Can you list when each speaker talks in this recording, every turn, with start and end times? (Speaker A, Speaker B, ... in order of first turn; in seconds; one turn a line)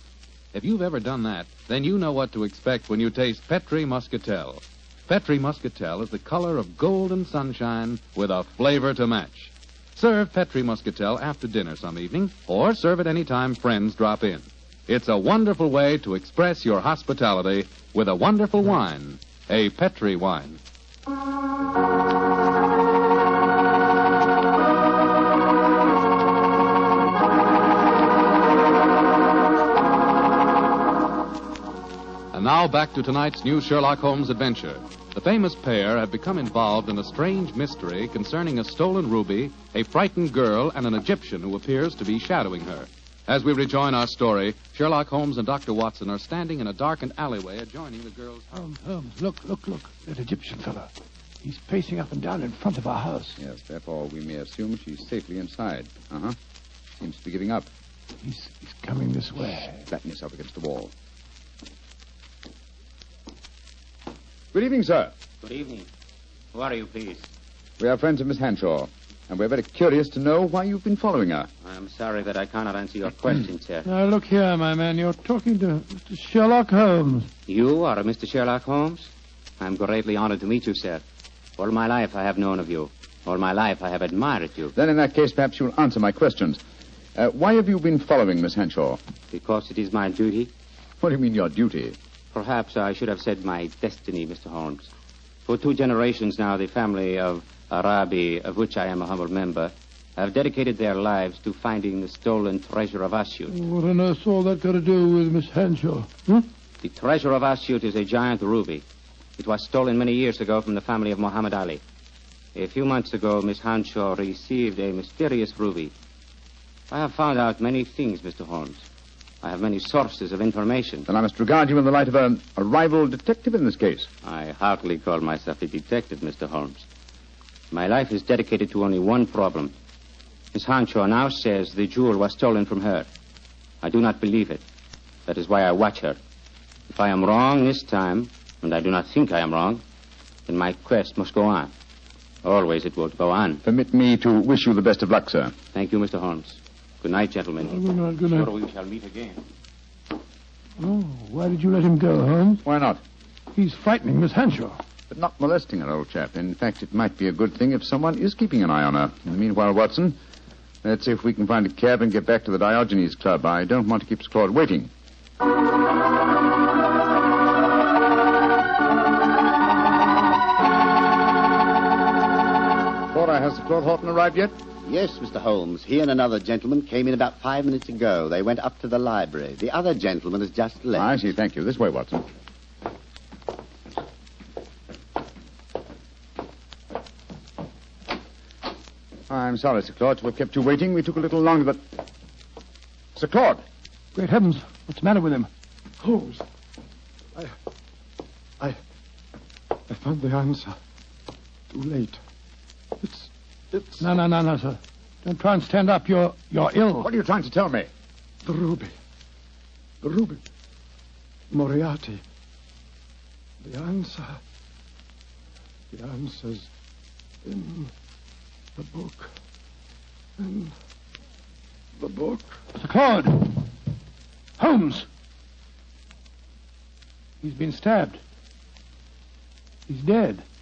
Speaker A: 0.5-20.6
Speaker A: 32.3-48.6
Speaker B: 48.5-50.9
Speaker B: 51.4-53.4
Speaker C: 53.4-56.4
Speaker C: 57.0-57.7
Speaker B: 58.2-59.8
Speaker C: 59.9-60.9
Speaker C: 64.5-65.1
Speaker D: 65.4-65.9
Speaker D: 66.5-67.3
Speaker C: 67.8-71.5
Speaker D: 71.6-73.8
Speaker B: 73.8-77.3
Speaker D: 77.5-79.1
Speaker D: 79.6-81.0
Speaker D: 81.6-84.7
Speaker C: 84.7-86.6
Speaker C: 87.2-89.0
Speaker D: 89.3-90.5
Speaker C: 91.0-92.0
Speaker D: 92.3-94.9
Speaker D: 95.5-103.5
Speaker B: 103.5-106.5
Speaker D: 106.8-108.8
Speaker D: 109.4-111.8
Speaker D: 112.5-115.9
Speaker D: 116.9-118.8
Speaker D: 119.4-121.0
Speaker C: 121.1-124.1
Speaker D: 124.2-126.8
Speaker D: 127.7-129.7
Speaker D: 130.5-133.1
Speaker D: 133.8-134.6
Speaker D: 135.2-136.2
Speaker D: 136.9-139.8
Speaker D: 140.5-141.7
Speaker D: 142.4-143.6
Speaker C: 143.6-145.5
Speaker D: 145.7-149.4
Speaker B: 147.7-148.5
Speaker B: 150.8-152.6
Speaker C: 152.6-153.0
Speaker B: 153.5-154.7
Speaker C: 155.1-160.2
Speaker C: 160.8-164.9
Speaker C: 173.1-174.6
Speaker E: 174.8-181.1
Speaker C: 180.9-182.2
Speaker C: 189.3-191.8
Speaker C: 193.2-193.6
Speaker B: 194.1-195.5
Speaker F: 196.0-196.4
Speaker F: 199.9-200.8
Speaker F: 201.7-202.2
Speaker F: 203.0-204.1
Speaker B: 204.0-207.1
Speaker C: 207.0-207.9
Speaker F: 208.4-208.9
Speaker F: 210.0-210.4
Speaker F: 211.5-212.2
Speaker F: 213.6-214.4
Speaker F: 215.9-216.7
Speaker F: 217.4-217.9
Speaker F: 218.8-219.3
Speaker F: 220.4-220.7
Speaker F: 222.0-222.5
Speaker B: 222.8-223.7
Speaker B: 224.6-225.1
Speaker B: 227.4-228.2
Speaker B: 229.9-230.4